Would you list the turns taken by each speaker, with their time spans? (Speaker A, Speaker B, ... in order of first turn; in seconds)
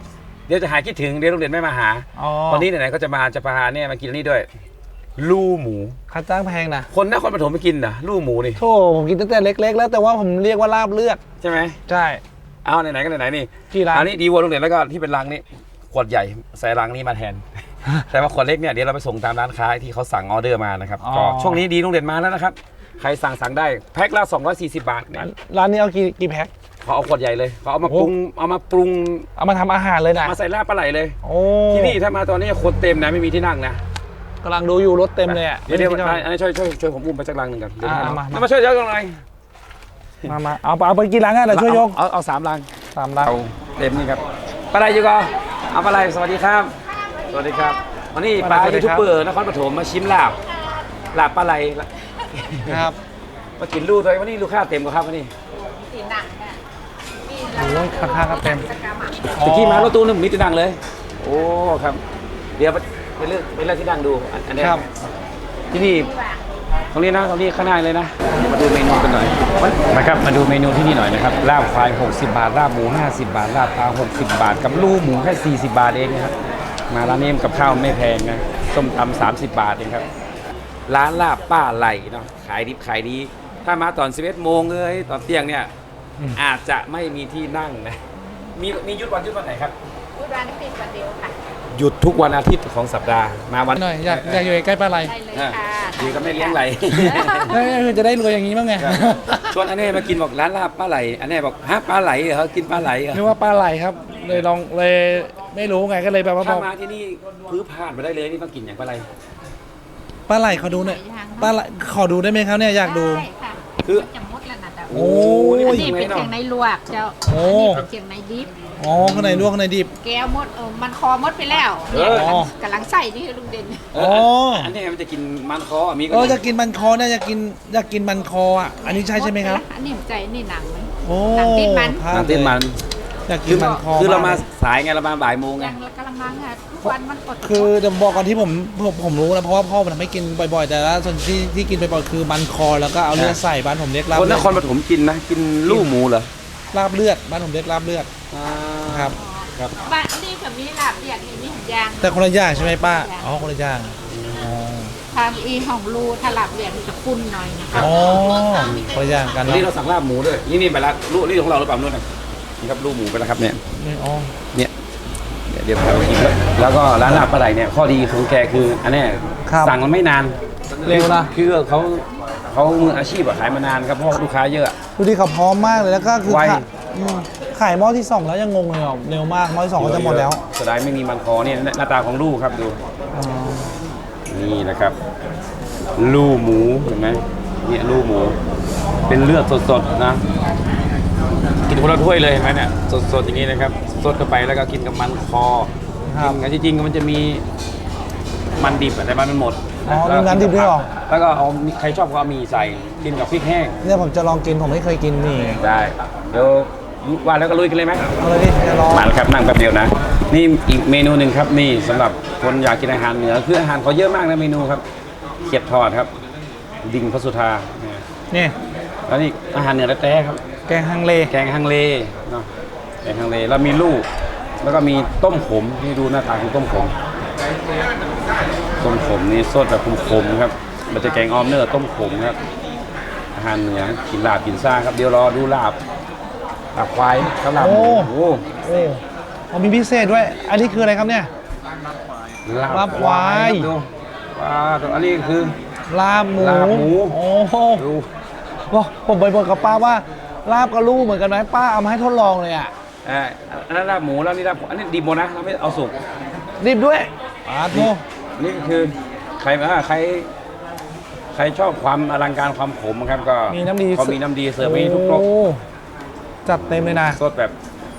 Speaker A: 0.5-4.5, 5.2-6.0, 6.9-8.6, 11.4-11.8, 12.7-25.3, 26.8-29.3, 30.2-31.2, 31.7-33.8, 35.3-39.2, 41.5-42.7, 43.2-46.8, 47.3-50.4, 51.1-52.9, 53.6-55.3, 59.3-62.0, 62.6-64.9, 65.7-66.1, 66.9-76.3, 76.9-80.0, 80.9-85.7, 86.3-88.0, 88.5-89.8, 91.7-94.4, 95.3-97.6, 98.8-103.2, 106.4-109.1, 114.9-116.3, 119.0-119.5, 121.9-122.3, 123.9-126.4, 132.1-132.8, 133.5-135.8, 143.1-143.4, 144.1-146.3, 148.3-149.8, 154.1-154.5, 159.4-162.1, 162.6-163.6, 165.5-174.8, 176.2-176.7, 179.8-182.8, 184.3-185.0, 186.0-188.4, 189.1-190.2, 191.7-197.4, 198.6-203.8, 205.6-208.1, 208.9-214.8, 215.4-216.1, 216.8-218.1, 219.1-220.4, 221.3-222.5, 223.0-224.1, 224.6-226.9, 228.8-232.4, 233.3-235.8, 236.8-238.4, 242.5-245.6, 246.4-247.2, 247.8-248.1, 253.1-256.0, 257.7-260.3, 261.4-265.3, 266.9-267.6
Speaker B: 2.2-2.7, 6.1-6.9, 8.6-11.2, 11.9-12.2, 13.7-14.1, 21.0-21.6, 25.2-26.5, 29.4-30.4, 31.2-32.0, 34.4-36.2, 37.8-38.5, 40.2-42.0, 42.9-43.3, 48.4-49.1, 52.7-53.0, 57.5-58.7, 59.3-60.0, 93.7-95.1, 97.5-99.6, 103.1-106.7, 110.3-113.3, 114.9-116.0, 117.3-117.8, 118.8-119.9, 122.0-122.5, 123.9-124.7, 126.1-129.6, 131.1-132.6, 133.3-134.4, 137.4-144.6, 145.7-145.9, 146.7-148.1, 148.9-149.2, 152.0-154.9, 157.7-159.7, 163.8-164.3, 169.5-169.8, 170.9-171.3, 175.0-180.4, 183.1-183.7, 196.1-196.4, 199.9-200.9, 203.8-205.6, 208.2-209.1, 220.7-221.3, 237.6-241.3, 242.7-243.7, 245.9-247.9, 248.7-252.7, 256.6-258.0, 263.5-265.6, 266.4-267.2
Speaker C: 47.4-47.7, 55.5-56.6, 57.2-59.2, 65.8-66.4, 88.2-88.5, 90.2-91.3, 95.0-97.7, 110.5-111.6, 112.7-115.0, 115.5-118.5, 120.0-123.9, 128.8-132.0, 135.6-138.3, 149.2-153.3, 155.1-158.8